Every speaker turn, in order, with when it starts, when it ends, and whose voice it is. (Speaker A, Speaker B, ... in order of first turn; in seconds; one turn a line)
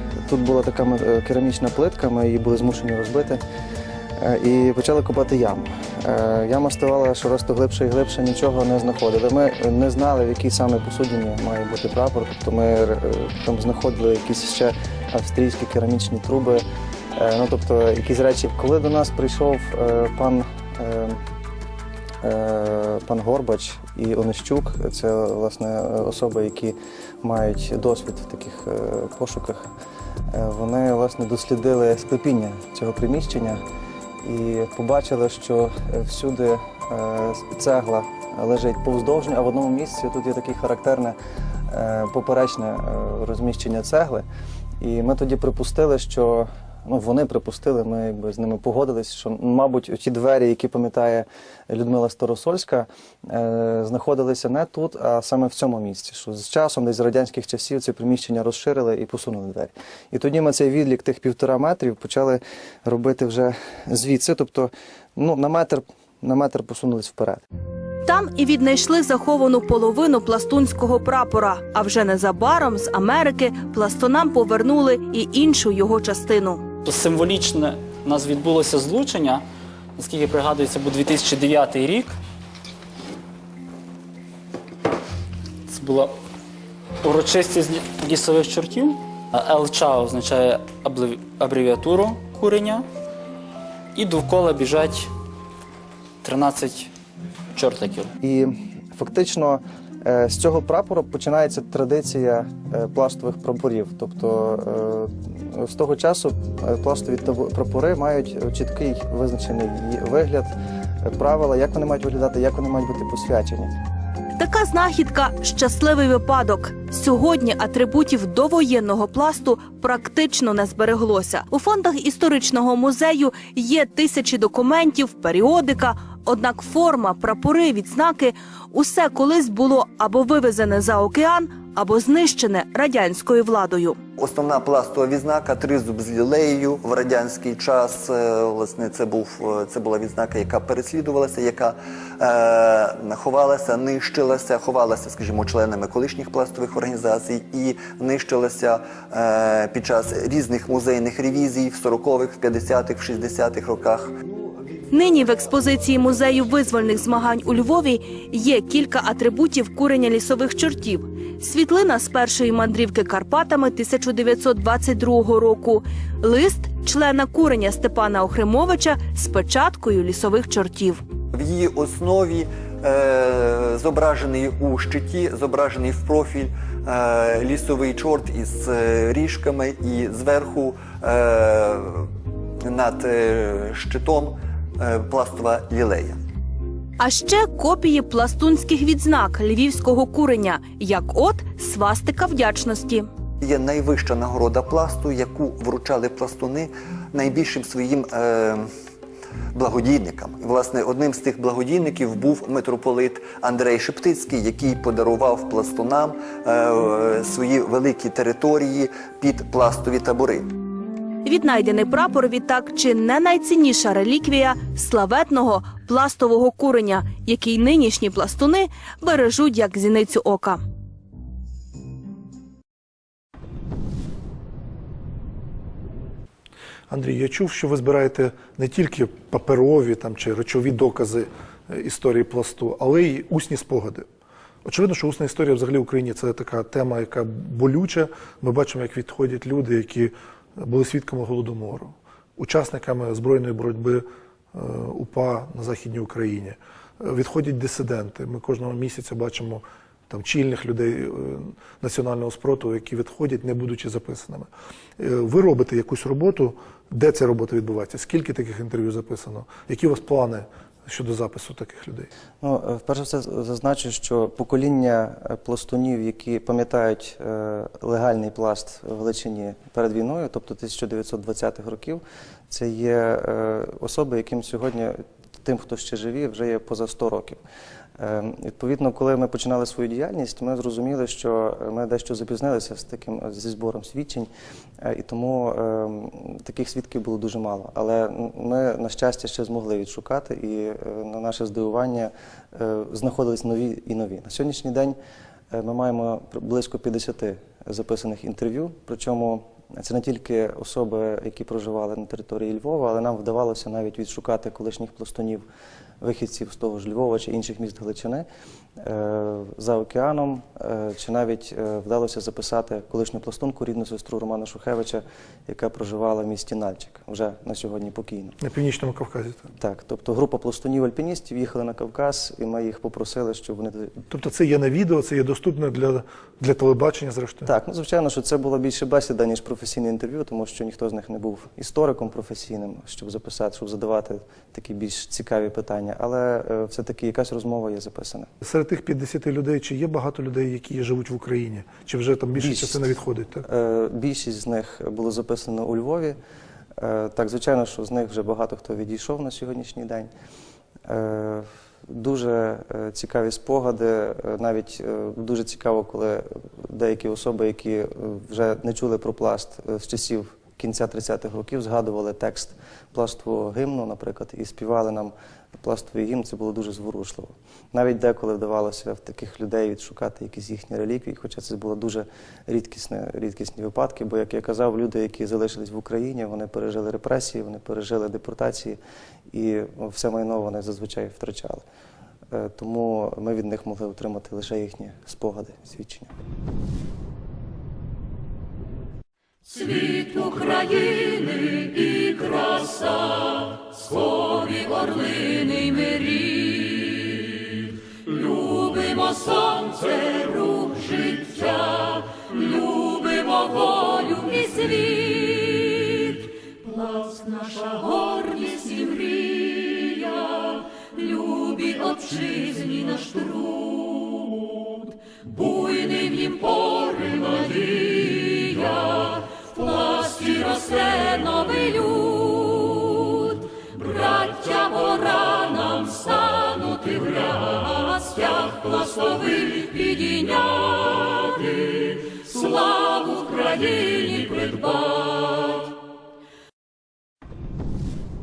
Speaker A: 0.2-3.4
Speaker A: 4.2-16.6
Speaker A: 17.1-21.2
Speaker A: 22.2-29.7
Speaker A: 30.3-33.6
Speaker A: 34.2-41.2
Speaker A: 41.7-44.2
Speaker A: 44.8-67.4
Speaker B: 68.1-76.6
Speaker C: 76.8-79.4
Speaker C: 80.0-82.1
Speaker C: 85.7-86.1
Speaker C: 87.0-92.8
Speaker C: 94.0-95.1
Speaker C: 96.2-96.9
Speaker C: 97.5-98.1
Speaker A: 98.2-113.7
Speaker B: 114.4-134.0
Speaker D: 134.2-154.1
Speaker B: 154.9-171.0
Speaker D: 171.3-182.1
Speaker D: 182.6-186.2
Speaker B: 187.0-193.1
Speaker D: 193.4-198.7
Speaker D: 199.6-210.5
Speaker B: 211.2-220.6
Speaker E: 226.9-234.1
Speaker E: 234.7-262.1
Speaker A: 262.4-277.4
Speaker A: 278.0-284.3
Speaker A: 284.8-295.0
Speaker A: 295.5-305.4
Speaker A: 306.0-308.3
Speaker A: 308.8-318.4
Speaker E: 318.4-319.5
Speaker A: 319.6-324.0
Speaker E: 324.1-327.5
Speaker A: 327.5-338.3
Speaker E: 338.4-343.4
Speaker A: 342.4-346.2
Speaker A: 346.8-350.1
Speaker A: 350.9-378.8
Speaker A: 379.3-381.6
Speaker A: 382.3-386.1
Speaker C: 389.5-397.3
Speaker C: 398.1-435.7